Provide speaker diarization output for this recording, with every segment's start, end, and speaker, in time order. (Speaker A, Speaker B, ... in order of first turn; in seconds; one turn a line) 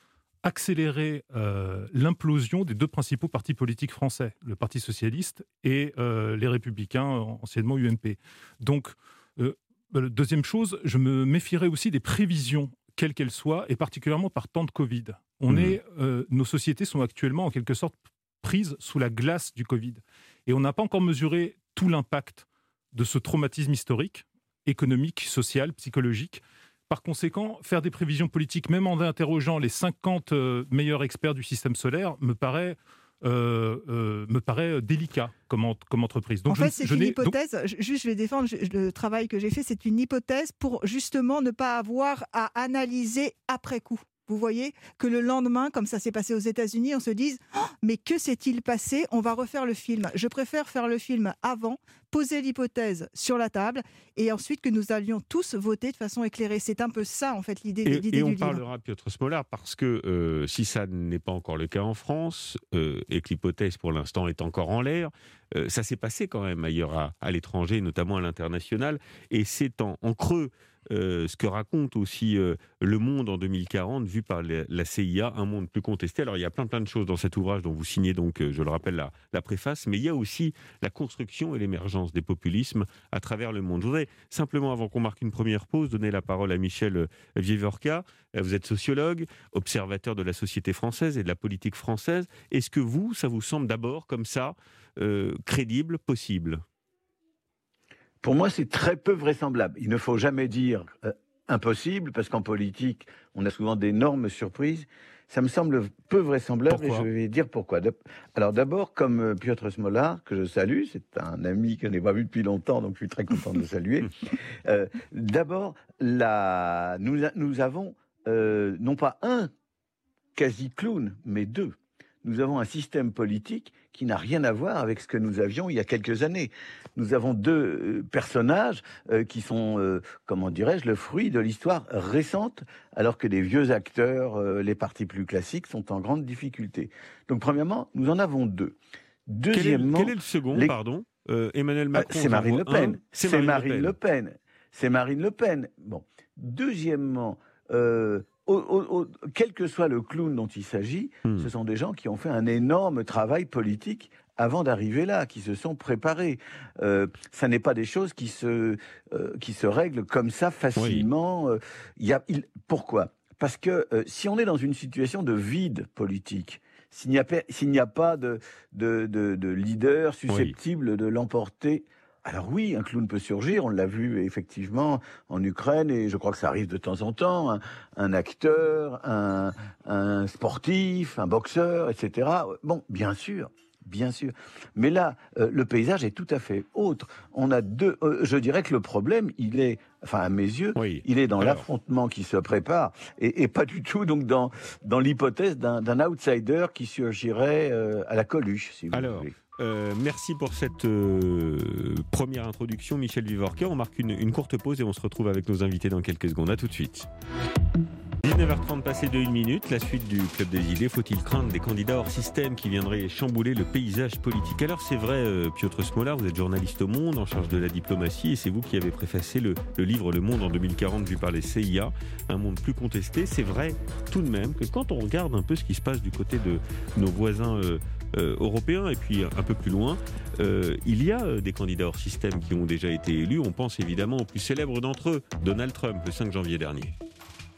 Speaker A: 0.4-37.3
Speaker B: 15.5-15.8
Speaker C: 36.5-58.6
Speaker B: 57.9-96.6
Speaker D: 98.2-119.5
Speaker A: 106.7-107.0
Speaker D: 120.3-138.8
Speaker D: 139.3-140.7
Speaker B: 139.5-144.0
Speaker D: 141.9-199.3
Speaker B: 151.2-151.5
Speaker B: 160.8-161.1
Speaker B: 170.3-170.5
Speaker B: 190.8-191.7
Speaker B: 198.9-207.1
Speaker B: 208.2-236.9